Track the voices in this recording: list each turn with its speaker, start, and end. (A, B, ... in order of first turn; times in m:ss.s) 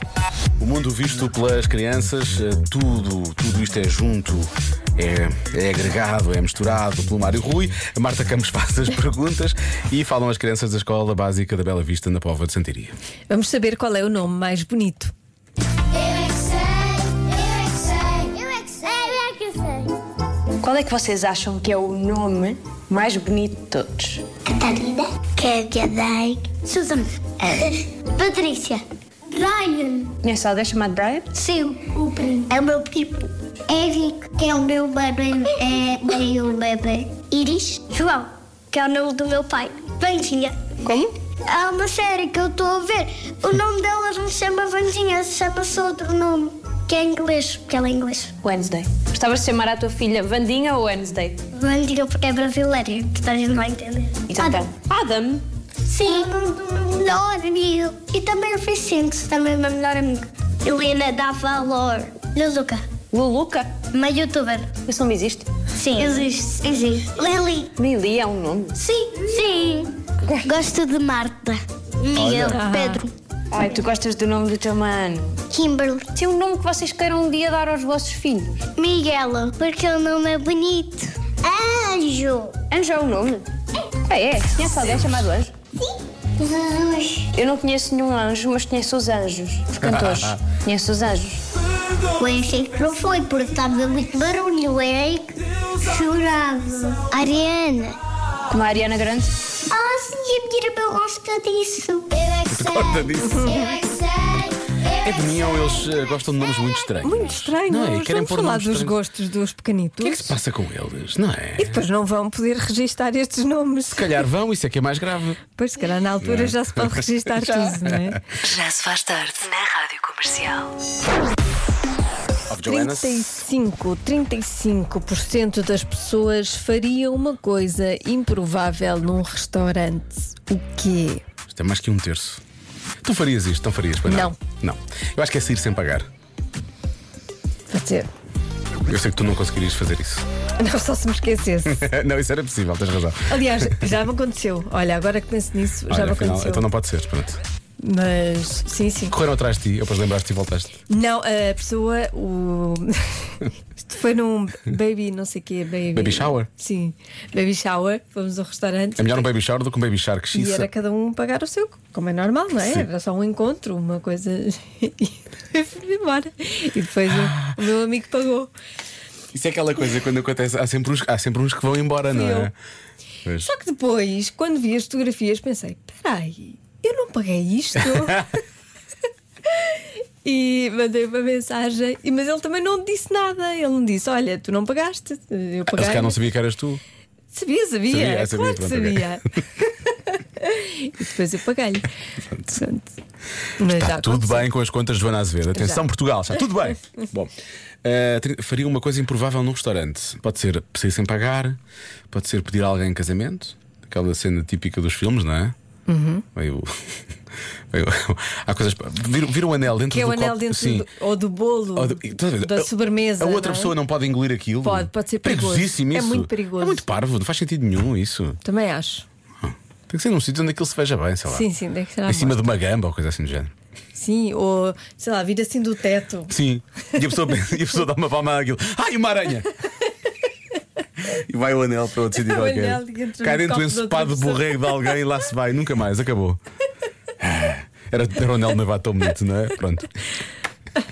0:00.6-0:13.0 A
0:13.3-0:15.1 B
0:16.1-0:19.9 C
0:20.6-0:24.2 D
0:24.4-0:30.1 C
0:30.2-0:31.3 D
0:31.3-0:40.6 C
0:41.4-0:48.3 C
0:48.4-0:51.4 D
0:51.5-0:54.7 C
0:54.3-0:55.4 D
0:55.9-1:02.8 C
1:03.1-1:03.8 D
1:03.9-1:04.7 C
1:04.8-1:05.5 D
1:05.7-1:07.7 C
1:07.8-1:08.8 D
1:08.7-1:13.1 C
1:12.4-1:13.0 B
1:13.5-1:15.4 D
1:15.5-1:16.1 C
1:16.2-1:18.7 D
1:18.8-1:22.6 C
1:22.7-1:23.5 D
1:24.1-1:25.5 D
1:26.4-1:27.4 C
1:27.4-1:31.4 D
1:29.8-1:30.4 A
1:32.2-1:38.0 C
1:38.5-1:39.3 D
1:39.7-1:44.0 C
1:42.5-1:43.5 A
1:43.2-1:43.8 B
1:45.0-1:49.0 A
1:47.0-1:50.4 B
1:50.0-1:51.8 A
1:51.6-1:54.1 B
1:53.9-1:55.4 A
1:55.6-1:58.2 B
1:56.2-1:58.2 A
1:58.4-2:00.7 E
2:02.5-2:03.4 A
2:02.6-2:11.2 B
2:11.5-2:12.4 A
2:13.0-2:16.1 A
2:14.0-2:14.4 B
2:17.7-2:18.1 B
2:18.9-2:20.2 A
2:20.6-2:21.8 B
2:21.8-2:23.9 A
2:23.3-2:26.6 B
2:25.9-2:27.4 A
2:27.8-2:29.2 B
2:29.2-2:30.8 A
2:30.9-2:39.3 B
2:36.0-2:36.5 A
2:39.0-2:40.7 A
2:40.3-2:48.5 B
2:49.3-2:52.5 A
2:52.1-2:52.5 B
2:53.4-2:58.3 B
2:59.5-3:06.2 B
3:05.7-3:06.8 A
3:07.3-3:11.8 B
3:07.9-3:09.2 A
3:12.5-3:12.9 B
3:13.6-3:14.4 B
3:13.7-3:17.3 A
3:15.5-3:15.8 B
3:17.8-3:21.6 A
3:22.1-3:25.6 A
3:25.9-3:26.2 B
3:26.4-3:26.7 A
3:27.7-3:30.9 A
3:29.9-3:33.7 B
3:31.8-3:32.7 A
3:33.2-3:38.4 A
3:34.6-3:36.8 B
3:38.4-3:39.0 B
3:39.4-3:41.4 A
3:41.3-3:42.4 B
3:42.1-3:43.5 A
3:43.9-3:46.3 B
3:46.3-3:49.5 A
3:51.3-3:56.4 A
3:52.1-3:55.0 B
3:57.2-3:59.9 A